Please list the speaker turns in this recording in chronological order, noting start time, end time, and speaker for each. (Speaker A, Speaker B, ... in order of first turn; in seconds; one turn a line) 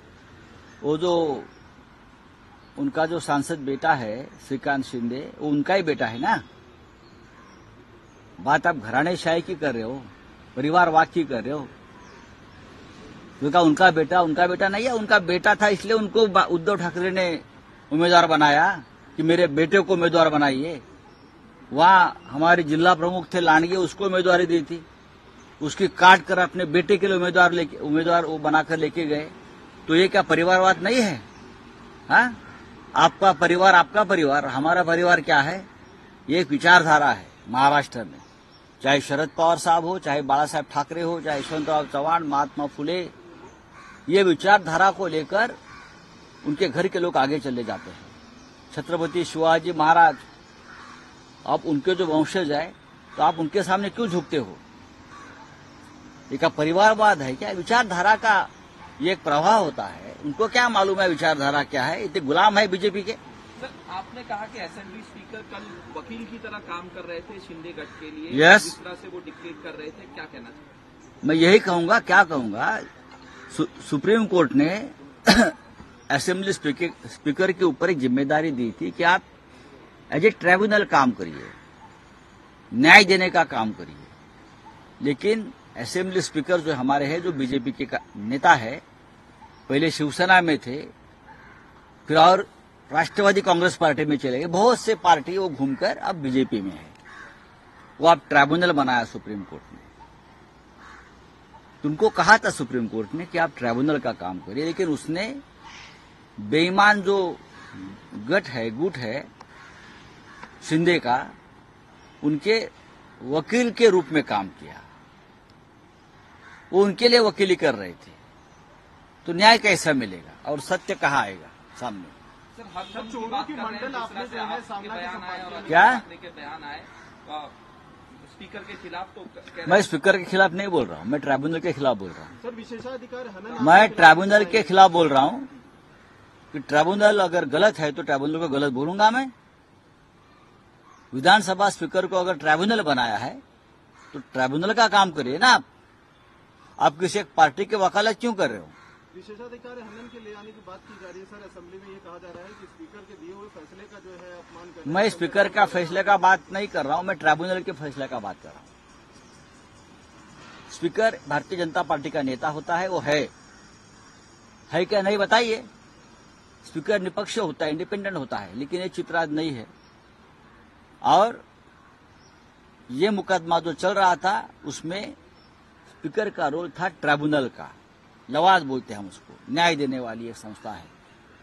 Speaker A: 0.8-1.5
Speaker A: 2.8-6.4
Speaker A: 8.4-11.7
Speaker A: 13.4-20.8
Speaker A: 21.7-24.8
Speaker A: 25.6-29.3
Speaker A: 29.9-31.2
Speaker A: 32.1-32.4
Speaker A: 32.9-35.7
Speaker A: 36.3-38.2
Speaker A: 38.8-43.1
Speaker A: 44.1-45.5
Speaker A: 46.4-48.1
Speaker A: 48.7-50.2
Speaker A: 51.4-54.6
Speaker A: 56.3-63.2
Speaker B: 63.6-70.6
Speaker A: 68.3-68.7
Speaker A: 71.2-72.8
Speaker A: 73.5-75.5
Speaker A: 76.1-79.2
Speaker A: 80.1-81.5
Speaker A: 82.7-84.1
Speaker A: 85.0-88.8
Speaker A: 89.7-90.9
Speaker A: 92.1-96.9
Speaker A: 98.0-99.8
Speaker A: 101.8-105.4
Speaker A: 106.4-109.3
Speaker A: 110.6-111.3
Speaker A: 112.2-112.7
Speaker A: 113.2-114.8
Speaker A: 116.7-118.2
Speaker A: 119.2-122.1
Speaker B: 122.5-127.5
Speaker C: 122.9-125.9
Speaker A: 125.7-126.0
Speaker B: 128.2-129.9
Speaker A: 129.6-132.3
Speaker C: 132.4-134.9
Speaker A: 133.6-135.5
Speaker A: 136.5-139.3
Speaker A: 141.1-143.4
Speaker A: 144.1-145.6
Speaker A: 146.8-148.7
Speaker C: 149.1-156.3
Speaker A: 154.8-158.7
Speaker A: 160.7-163.3
Speaker A: 164.7-165.7
Speaker A: 166.6-169.7
Speaker A: 171.0-171.4
Speaker A: 172.9-175.1
Speaker A: 176.0-177.7
Speaker A: 178.3-180.9